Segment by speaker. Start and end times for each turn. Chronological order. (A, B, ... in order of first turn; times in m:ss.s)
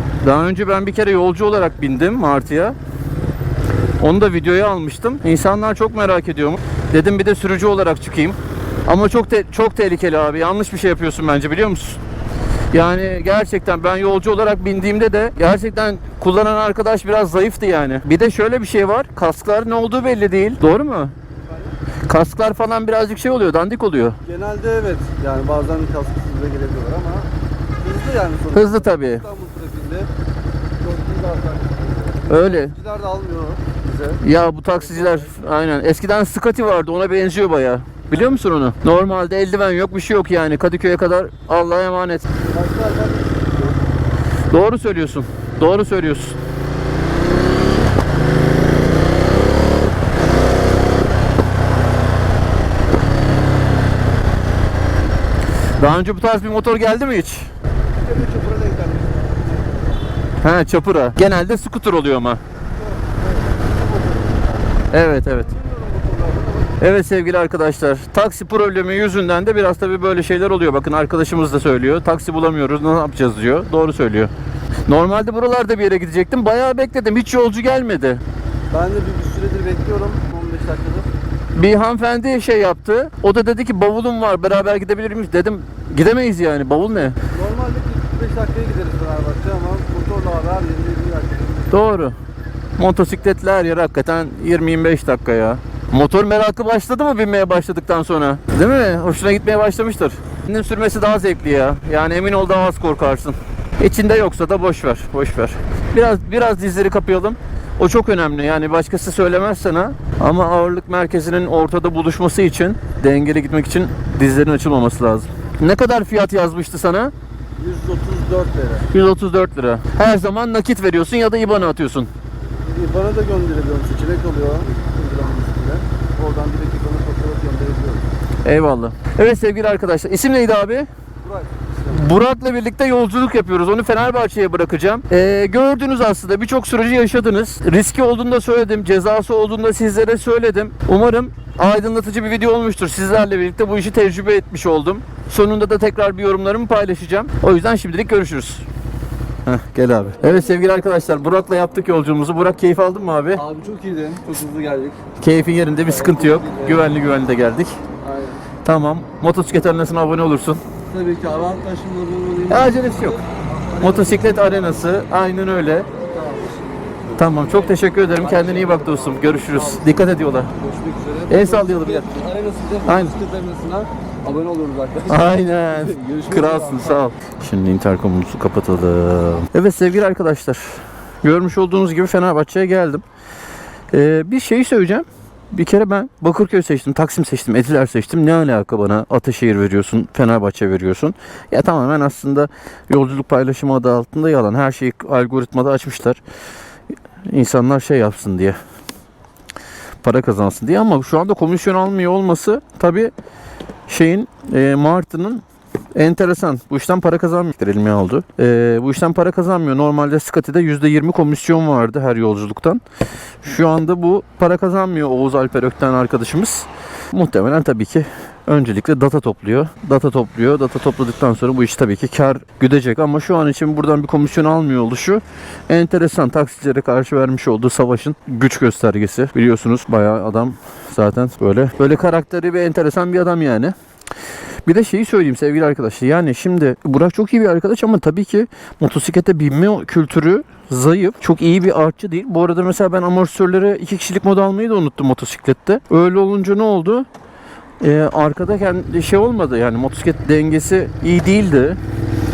0:00.2-0:02.8 A
0:04.0-0:12.0 A
0:12.7-0:21.1 A
0:21.5-0:21.8 B
0:22.1-0:24.2 A
0:24.2-0:30.1 B
0:28.5-0:29.2 A
0:30.8-0:34.2 B
0:32.3-0:32.7 A
0:34.2-0:42.3 A
0:34.8-0:35.3 B
0:38.1-0:38.4 B
0:42.5-0:43.9 B
0:44.5-0:46.4 A
0:55.8-0:57.5 A
0:57.9-1:00.0 B
1:00.4-1:02.4 A
1:02.8-1:04.6 B
1:04.9-1:05.5 A
1:05.4-1:06.8 B
1:06.8-1:14.3 A
1:14.9-1:18.2 A
1:18.7-1:21.1 B
1:21.6-1:27.2 A
1:27.3-1:31.7 B
1:31.7-1:32.2 A
1:32.8-1:57.1 A
1:57.6-1:58.9 B
1:58.9-2:02.1 A
2:02.6-2:08.0 B
2:08.4-2:10.9 A
2:11.2-2:12.1 B
2:11.9-2:28.7 A
2:29.5-2:33.4 A
2:33.3-2:35.0 B
2:35.2-2:37.8 A
2:35.8-2:36.9 B
2:38.0-2:38.4 B
2:38.6-2:40.6 A
2:40.9-2:44.8 B
2:42.5-2:43.2 A
2:43.8-2:45.9 A
2:45.9-2:57.1 B
2:47.2-2:50.5 A
2:51.3-2:52.1 A
2:52.8-2:53.2 A
2:55.1-3:03.0 A
3:03.9-3:16.2 A
3:17.2-3:18.6 A
3:20.0-3:23.1 A
3:23.9-3:25.4 A
3:25.9-3:32.8 A
3:33.4-3:53.8 A
3:54.6-4:07.1 A
4:07.8-4:11.8 A